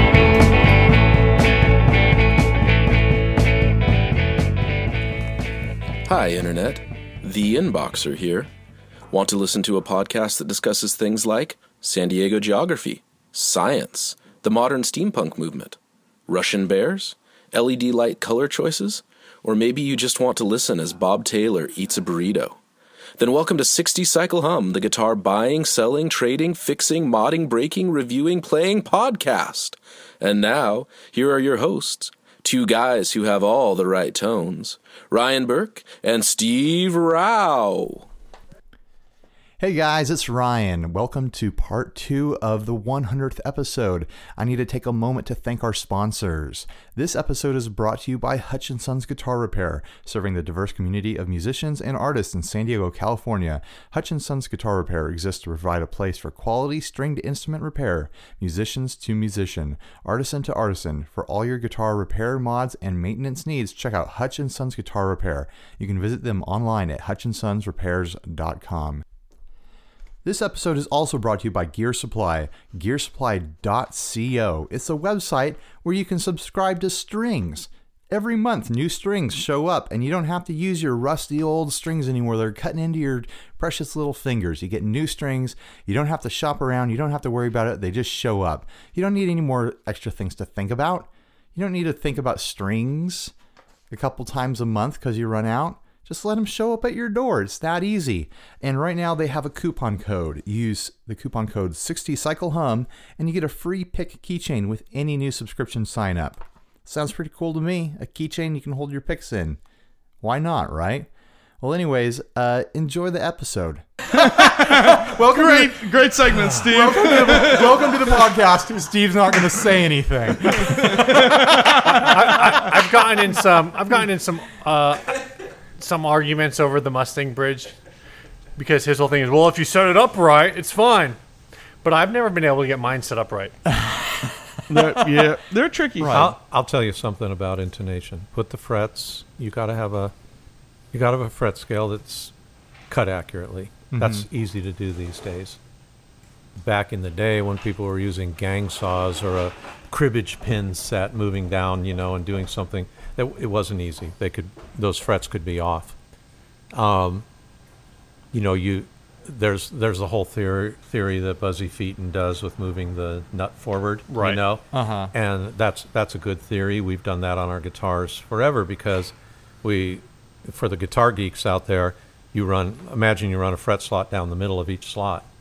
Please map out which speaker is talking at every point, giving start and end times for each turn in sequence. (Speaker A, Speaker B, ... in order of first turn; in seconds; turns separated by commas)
Speaker A: 6.0-8.5, Speaker A: 9.1-22.6, Speaker A: 23.2-38.1, Speaker B: 39.6-69.0, Speaker B: 70.2-93.3, Speaker B: 93.9-109.6, Speaker B: 110.2-111.1, Speaker B: 111.6-115.9, Speaker C: 114.1-117.7, Speaker B: 116.5-122.0, Speaker C: 120.8-121.1, Speaker D: 121.1-125.1, Speaker D: 125.8-127.7, Speaker D: 128.6-131.2, Speaker D: 131.8-133.6, Speaker C: 134.7-136.2, Speaker B: 136.0-136.3, Speaker E: 136.1-140.1, Speaker E: 140.9-142.3, Speaker E: 142.9-145.6, Speaker B: 143.9-144.2, Speaker E: 146.6-155.9, Speaker E: 156.7-157.2, Speaker E: 158.3-175.2, Speaker D: 164.1-164.4, Speaker B: 164.7-165.1